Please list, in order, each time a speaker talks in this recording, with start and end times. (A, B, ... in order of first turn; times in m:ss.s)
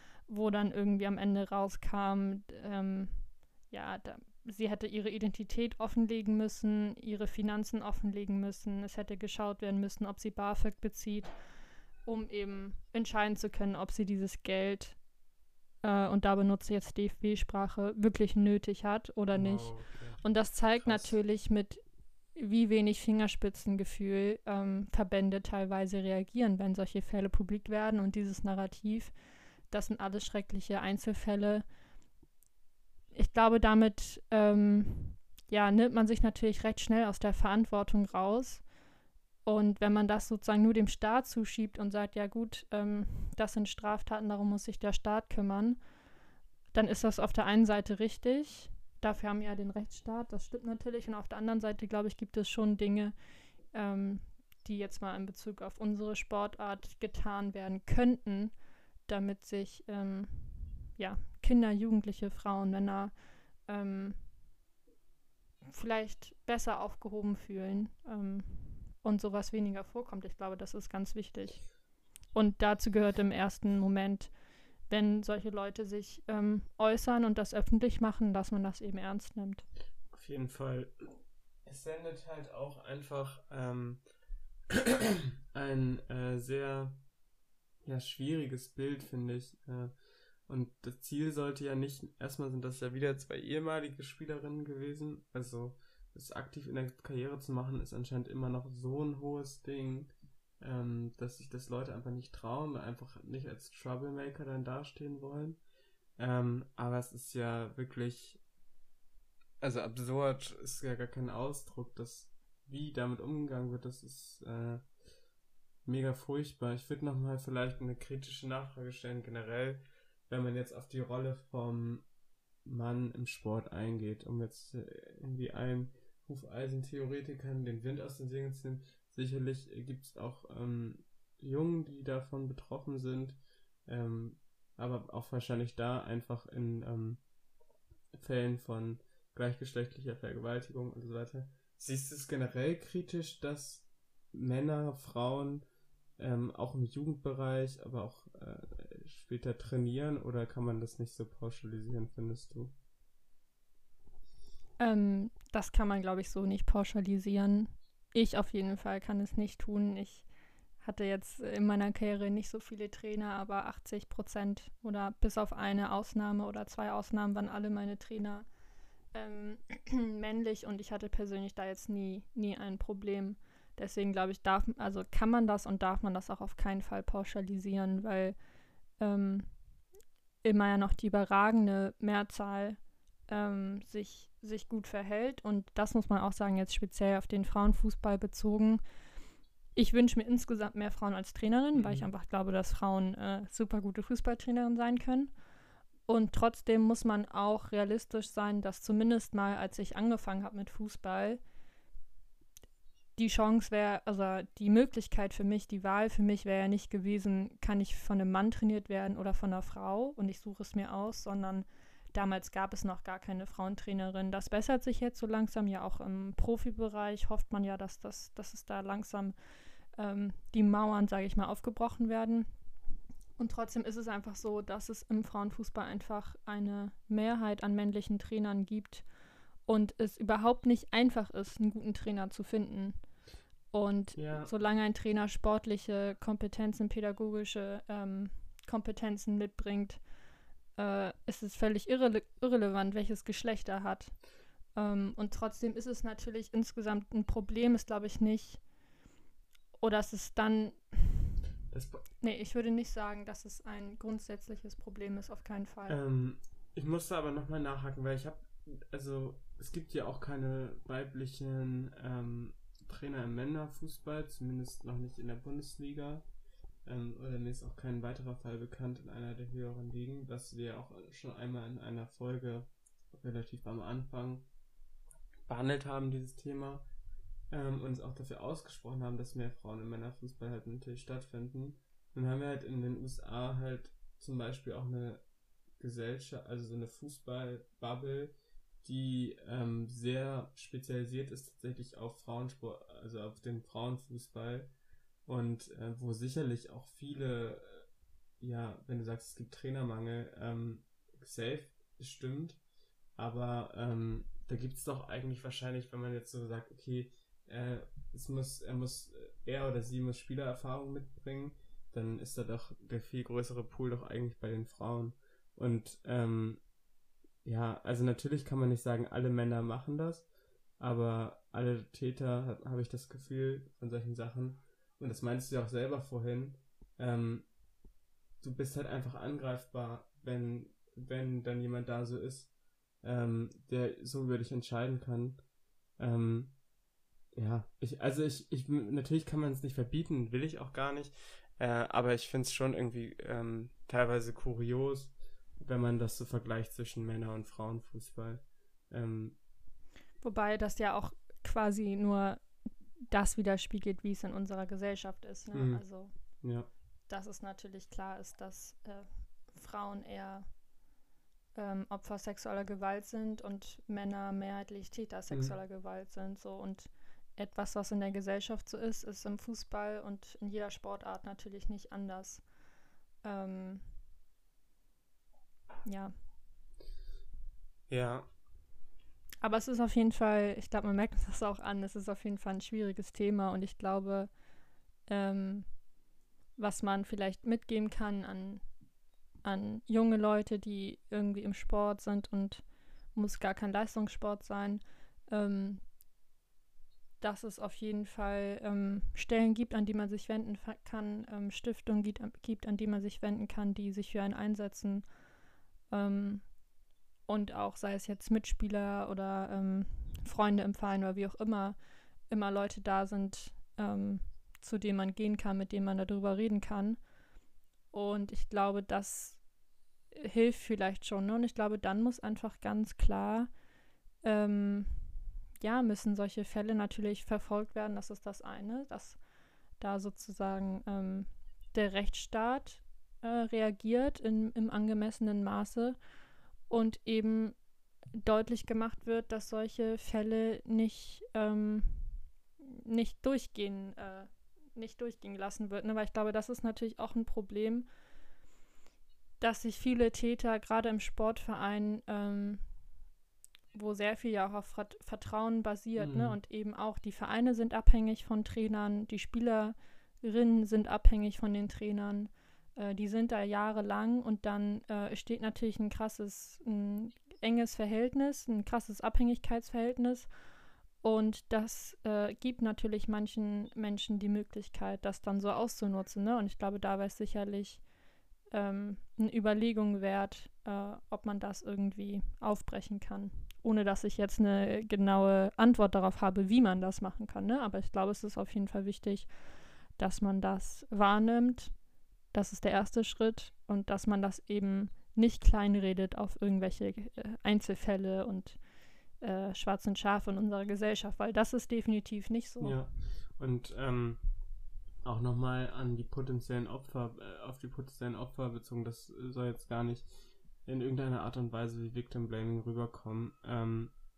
0:00.3-0:11.3 A
0:12.0-0:15.0 A
0:15.8-0:21.8 A
0:19.3-0:20.2 B
0:20.8-0:21.2 B
0:22.3-0:29.1 A
0:29.7-0:31.6 A
0:33.1-0:38.6 A
0:39.4-0:45.8 A
0:46.7-0:53.1 A
0:53.7-0:58.5 A
0:59.1-1:03.1 A
1:03.6-1:04.2 A
1:05.7-1:11.6 A
1:12.3-1:14.3 A
1:14.9-1:19.6 A
1:20.1-1:21.0 B
1:21.6-1:24.0 B
1:24.7-1:27.0 B
1:27.8-1:29.9 B
1:30.5-1:45.6 B
1:46.2-1:48.4 B
1:49.6-1:54.8 B
1:55.8-2:02.0 B
2:02.6-2:17.2 B
2:18.1-2:25.6 B
2:26.2-2:32.7 B
2:34.8-2:40.3 A
2:40.8-2:48.4 A
2:49.1-2:58.4 A
2:59.0-2:59.5 A
3:00.4-3:08.8 A
3:09.7-3:15.3 A
3:11.8-3:12.1 B
3:16.1-3:21.4 A
3:23.2-3:39.3 A
3:39.9-3:42.5 A
3:43.4-3:49.0 A
3:49.6-3:53.0 A
3:53.7-4:00.0 A
3:54.2-3:54.5 B
4:00.8-4:04.1 A
4:04.8-4:08.6 A
4:09.8-4:11.3 A
4:11.7-4:12.0 B
4:12.2-4:16.0 A
4:15.9-4:26.2 B
4:26.8-4:34.5 B
4:35.5-4:36.8 B
4:37.5-4:45.2 B
4:45.8-4:54.7 B
4:55.2-4:57.8 B
4:58.4-5:02.6 B
5:03.2-5:16.6 B
5:17.4-5:20.3 B
5:20.8-5:27.5 B
5:28.4-5:35.4 B
5:36.0-5:36.5 B
5:37.3-5:49.4 B
5:50.2-5:52.4 A
5:53.1-5:56.1 A
5:55.5-5:55.8 B
5:56.4-5:56.7 B
5:57.1-6:00.5 A
6:01.5-6:12.4 A
6:05.3-6:05.5 B
6:13.2-6:13.8 A
6:15.8-6:16.1 A
6:17.9-6:18.3 B
6:19.4-6:24.3 A
6:25.1-6:25.7 A
6:26.6-6:28.6 A
6:29.4-6:32.6 A
6:33.1-6:35.8 A
6:37.2-6:45.0 A
6:45.9-6:46.4 A
6:47.3-6:51.8 A
6:52.3-6:57.0 A
6:57.9-6:59.4 A
7:00.1-7:03.5 A
7:04.2-7:05.1 A
7:05.6-7:09.2 A
7:09.8-7:16.0 A
7:16.7-7:17.6 A
7:18.2-7:27.9 A
7:29.4-7:32.6 A
7:33.7-7:50.3 A
7:36.0-7:36.4 B
7:51.0-7:57.8 A
7:58.5-8:09.3 A
8:10.0-8:11.7 A
8:12.3-8:18.6 A
8:19.2-8:22.8 A
8:22.6-8:24.2 B
8:25.0-8:30.1 B
8:30.6-8:33.9 B